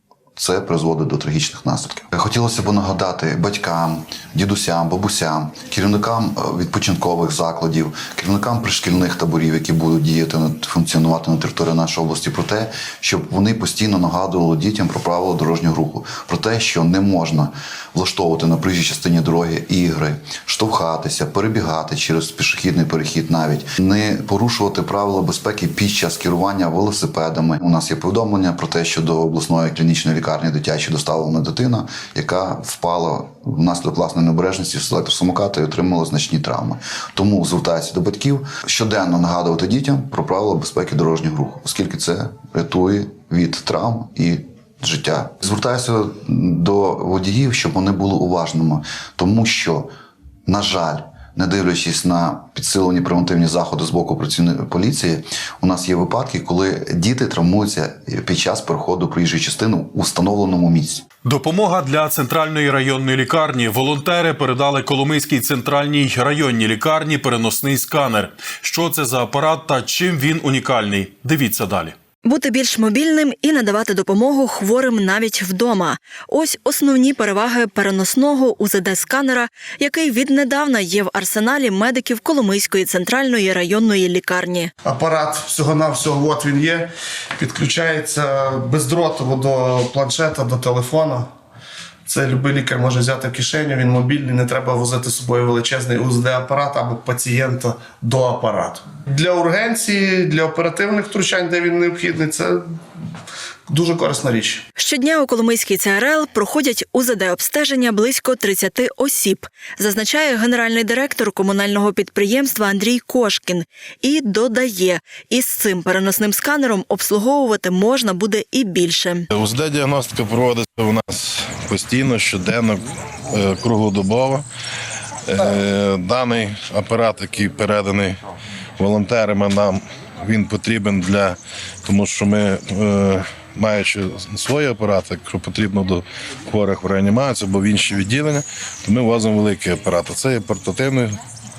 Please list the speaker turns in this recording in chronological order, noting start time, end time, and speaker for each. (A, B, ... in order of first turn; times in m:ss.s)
0:00.4-0:49.9 A
0:50.4-1:01.0 A
1:01.2-1:11.9 B
1:12.2-1:24.7 C
1:24.8-1:31.3 D
1:32.0-1:42.6 D
1:43.7-1:44.6 D
1:44.8-1:59.2 C
1:59.3-2:04.4 E
2:05.3-2:08.2 E
2:08.8-2:21.2 E